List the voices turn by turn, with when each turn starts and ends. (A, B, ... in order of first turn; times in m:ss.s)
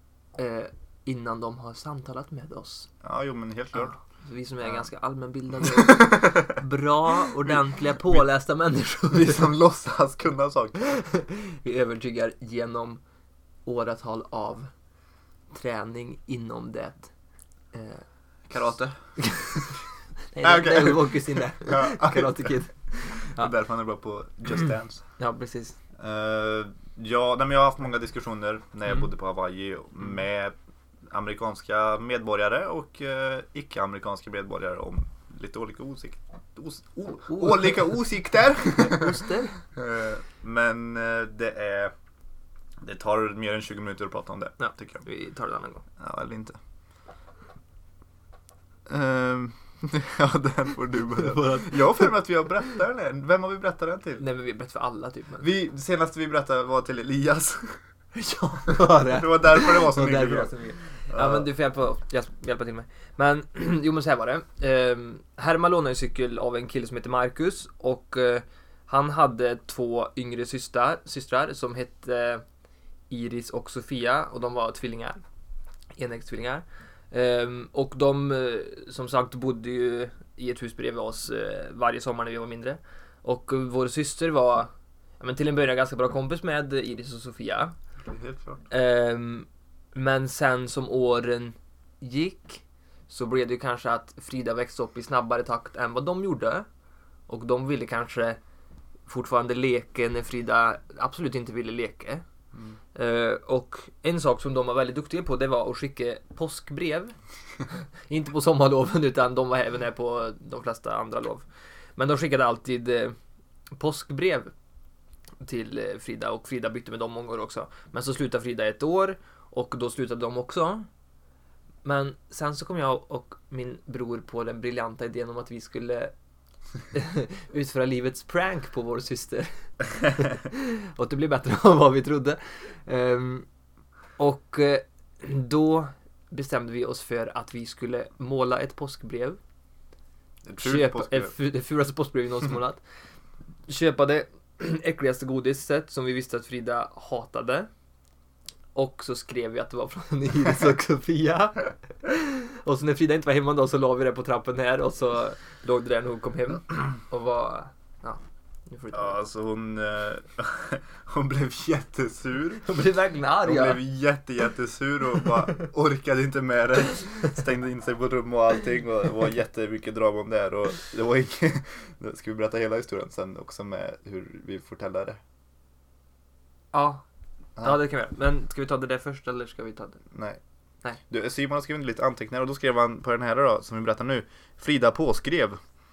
0:00.3-0:02.9 A
0:03.0-0:03.9 B
0:03.8-0:09.5 A
0:05.6-0:06.4 B
0:09.1-0:11.0 B
0:10.9-0:13.0 A
0:13.6-0:14.7 A
0:15.5-0:17.1 A
0:17.7-0:18.0 A
0:18.5-0:19.6 B
0:19.2-0:23.5 A
0:20.4-0:22.6 B
0:23.2-0:25.0 B
0:25.2-0:25.8 A
0:26.0-0:30.5 B
0:31.1-0:41.9 B
0:37.3-0:37.8 A
0:38.8-0:39.6 A
0:42.8-0:45.0 B
0:44.6-0:45.8 A
0:46.0-0:46.6 B
0:48.9-0:54.2 B
0:51.2-0:52.1 A
0:54.2-0:55.5 A
0:55.4-0:57.8 B
0:58.1-1:12.4 A
0:59.0-1:00.5 B
1:01.1-1:01.5 B
1:13.1-1:15.2 A
1:16.0-1:24.7 A
1:25.2-1:27.7 A
1:28.0-1:28.6 B
1:28.7-1:36.7 A
1:37.3-1:38.4 A
1:39.1-1:42.2 A
1:42.9-1:47.2 A
1:47.7-1:51.4 A
1:52.0-1:53.2 A
1:53.7-1:54.5 A
1:55.4-2:00.9 A
2:01.8-2:06.1 A
2:06.9-2:13.4 A
2:14.2-2:19.4 A
2:20.4-2:21.3 B
2:20.6-2:22.8 A
2:23.7-2:27.7 A
2:28.7-2:39.2 A
2:38.9-2:42.7 B
2:42.6-2:43.8 A
2:43.4-2:55.2 B
2:56.7-2:57.0 A
2:57.6-3:00.0 A
3:00.1-3:00.4 B
3:01.1-3:05.6 B